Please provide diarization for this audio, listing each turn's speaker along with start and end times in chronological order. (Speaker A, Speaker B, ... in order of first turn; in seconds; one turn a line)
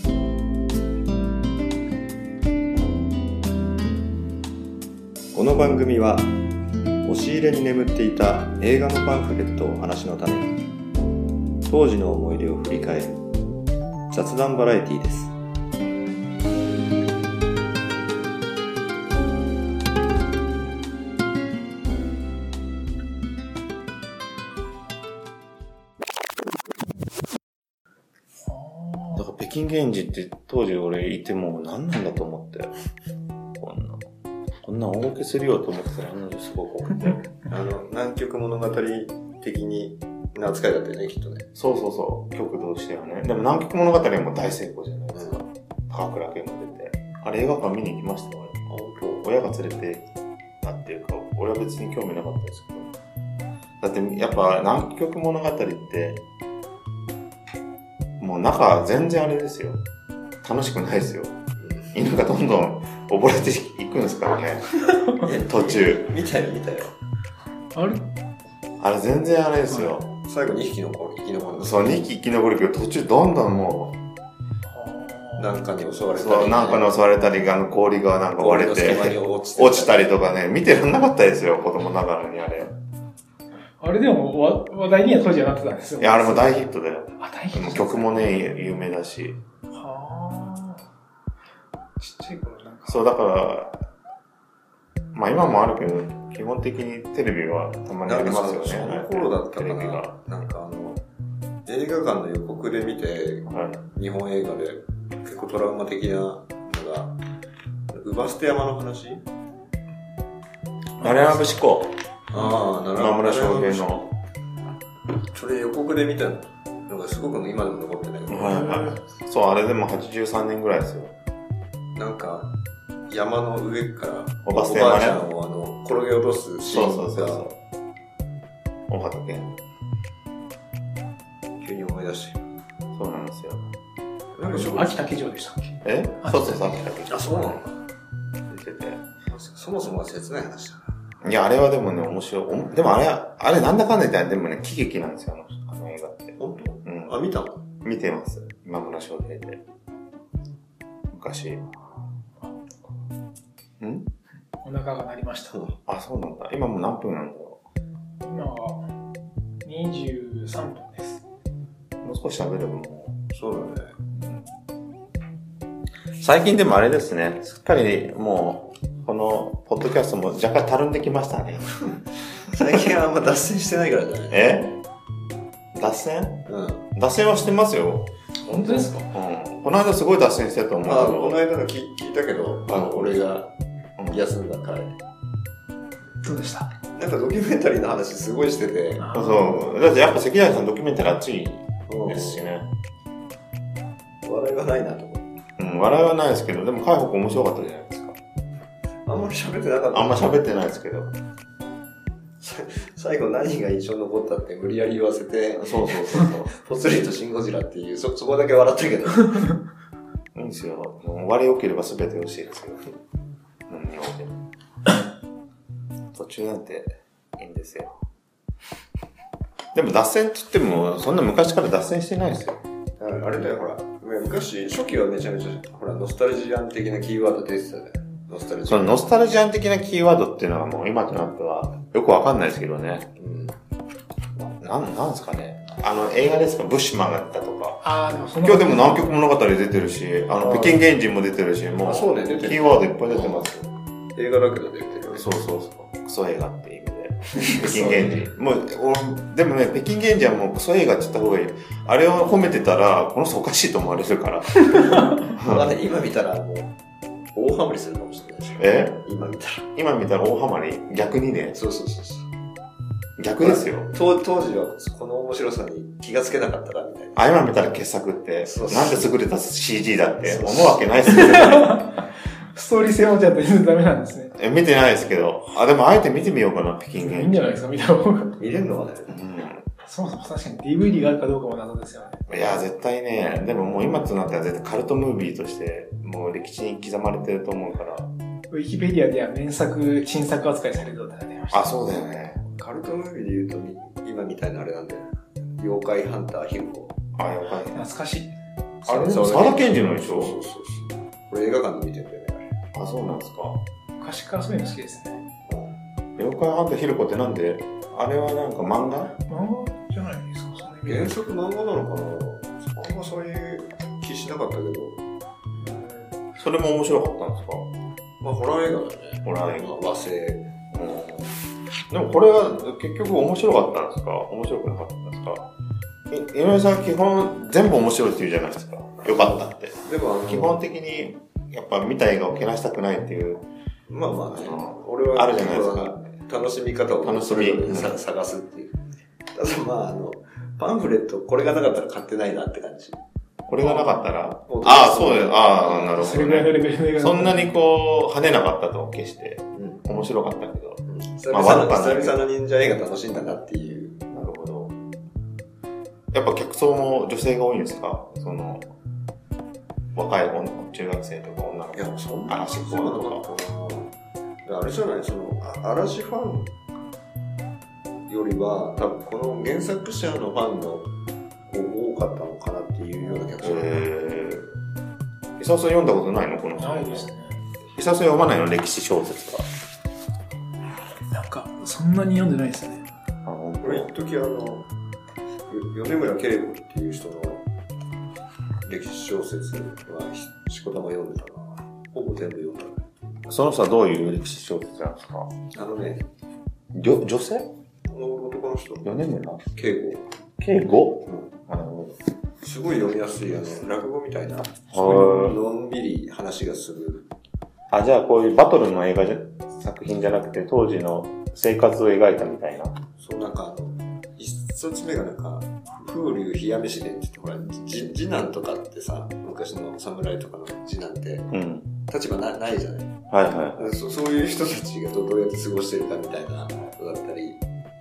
Speaker A: 5.3-6.3
Speaker A: 7.0-10.5
Speaker A: 11.7-13.2
Speaker A: 14.1-15.3
Speaker B: 28.5-29.2
Speaker C: 29.1-32.7
Speaker C: 33.6-34.0
Speaker C: 34.6-37.3
Speaker A: 37.5-41.5
Speaker C: 41.5-48.6
Speaker A: 45.1-45.4
Speaker A: 48.7-49.2
Speaker C: 49.2-50.1
Speaker C: 50.6-52.9
Speaker C: 53.8-56.2
Speaker C: 58.2-59.8
Speaker C: 60.4-61.4
Speaker A: 61.6-61.9
Speaker C: 61.9-64.9
Speaker A: 65.2-66.9
Speaker C: 65.5-66.1
Speaker B: 67.7-68.1
Speaker C: 68.8-70.1
Speaker B: 69.7-69.9
Speaker A: 70.2-72.0
Speaker C: 71.5-74.0
Speaker B: 74.7-75.5
Speaker A: 75.4-76.9
Speaker C: 76.1-82.7
Speaker A: 78.4-80.1
Speaker B: 83.8-86.6
Speaker C: 86.0-89.4
Speaker B: 87.2-88.2
Speaker B: 89.7-90.8
Speaker B: 92.0-93.0
Speaker C: 92.9-93.9
Speaker C: 95.1-100.1
Speaker A: 98.0-101.0
Speaker A: 101.7-107.2
Speaker C: 103.5-103.8
Speaker A: 107.9-109.2
Speaker B: 111.0-111.6
Speaker C: 111.0-112.0
Speaker A: 112.3-114.1
Speaker B: 112.4-112.6
Speaker C: 112.9-114.1
Speaker A: 115.3-118.6
Speaker C: 118.3-121.1
Speaker B: 118.5-119.0
Speaker A: 121.9-122.5
Speaker A: 123.1-127.5
Speaker C: 124.4-125.2
Speaker C: 126.6-127.5
Speaker C: 128.9-129.6
Speaker A: 131.6-132.4
Speaker C: 132.9-133.7
Speaker A: 134.3-135.1
Speaker B: 134.4-136.8
Speaker C: 135.8-137.6
Speaker A: 137.1-137.8
Speaker C: 138.5-139.0
Speaker A: 139.3-140.9
Speaker C: 141.2-147.2
Speaker A: 146.4-147.6
Speaker C: 147.8-149.6
Speaker C: 151.1-151.7
Speaker C: 153.8-154.1
Speaker B: 154.6-155.6
Speaker C: 155.8-157.6
Speaker B: 158.2-158.9
Speaker B: 159.6-161.2
Speaker C: 162.0-163.2
Speaker A: 163.3-163.9
Speaker C: 164.1-164.5
Speaker C: 166.2-171.9
Speaker A: 172.5-174.5
Speaker C: 174.3-174.8
Speaker C: 175.7-181.4
Speaker A: 176.5-176.8
Speaker B: 178.5-179.0
Speaker A: 180.8-183.5
Speaker C: 182.7-183.2
Speaker C: 184.0-184.2
Speaker A: 184.1-184.9
Speaker B: 186.2-186.7
Speaker A: 186.9-189.1
Speaker B: 189.0-189.7
Speaker C: 189.1-192.7
Speaker A: 191.9-192.5
Speaker A: 194.2-195.3
Speaker C: 195.6-198.2
Speaker A: 199.1-200.4
Speaker C: 199.9-201.1
Speaker A: 202.4-209.5
Speaker C: 205.5-206.5
Speaker C: 210.3-212.8
Speaker C: 213.7-214.4
Speaker C: 216.1-217.9
Speaker C: 219.7-222.6
Speaker A: 223.0-229.0
Speaker C: 228.7-233.1
Speaker A: 233.2-233.6
Speaker C: 234.6-237.8
Speaker B: 237.8-239.2
Speaker C: 238.3-243.5
Speaker A: 240.4-240.9
Speaker A: 241.8-245.3
Speaker C: 245.1-255.6
Speaker A: 247.4-248.2
Speaker A: 255.3-256.7
Speaker A: 257.3-259.6
Speaker C: 258.6-259.0
Speaker C: 259.7-261.6
Speaker A: 261.5-262.3
Speaker C: 263.2-263.9
Speaker A: 263.4-267.2
Speaker C: 267.1-271.9
Speaker A: 268.4-269.1
Speaker A: 270.2-270.9
Speaker B: 271.0-274.3
Speaker C: 274.3-277.5
Speaker B: 276.9-278.3
Speaker A: 278.4-279.2
Speaker C: 279.1-279.6
Speaker B: 279.8-282.2
Speaker C: 282.3-288.1
Speaker B: 288.5-291.7
Speaker C: 291.5-292.4
Speaker A: 292.6-296.9
Speaker C: 297.1-297.8
Speaker B: 297.7-298.3
Speaker A: 298.8-302.5
Speaker C: 298.9-300.4
Speaker C: 302.7-303.6
Speaker B: 304.0-305.2
Speaker A: 305.5-305.7
Speaker C: 306.2-309.1
Speaker B: 309.3-311.1
Speaker A: 310.8-315.0
Speaker B: 315.6-316.1
Speaker C: 316.4-317.7
Speaker A: 318.2-320.4
Speaker C: 319.2-319.7
Speaker C: 320.7-321.3
Speaker C: 321.9-325.5
Speaker C: 326.1-333.4
Speaker A: 329.0-330.6
Speaker A: 333.9-338.7
Speaker C: 334.3-336.0
Speaker C: 337.0-337.9
Speaker A: 339.3-343.0
Speaker C: 343.5-352.2
Speaker B: 343.6-344.1
Speaker A: 344.4-346.0
Speaker B: 346.0-347.6
Speaker A: 349.5-349.8
Speaker A: 350.9-354.0
Speaker C: 354.1-354.7
Speaker C: 356.1-358.7
Speaker C: 359.9-363.2
Speaker A: 361.7-363.9
Speaker A: 364.4-366.5
Speaker A: 368.1-370.9
Speaker A: 371.5-373.8
Speaker C: 373.4-374.5
Speaker C: 375.4-377.1
Speaker B: 376.6-377.4
Speaker C: 377.7-379.4
Speaker B: 381.1-382.9
Speaker C: 383.2-383.9
Speaker A: 383.6-384.7
Speaker A: 385.5-387.4
Speaker A: 388.6-392.8
Speaker C: 393.3-395.3
Speaker A: 395.5-396.0
Speaker C: 396.7-397.5
Speaker A: 397.9-398.9
Speaker C: 398.8-399.4
Speaker A: 399.5-400.1
Speaker C: 400.4-402.0
Speaker A: 402.4-407.1
Speaker C: 404.7-405.4
Speaker C: 407.7-412.8
Speaker A: 413.0-421.3
Speaker C: 421.3-421.7
Speaker A: 421.9-422.9
Speaker C: 423.1-423.7
Speaker A: 423.6-427.4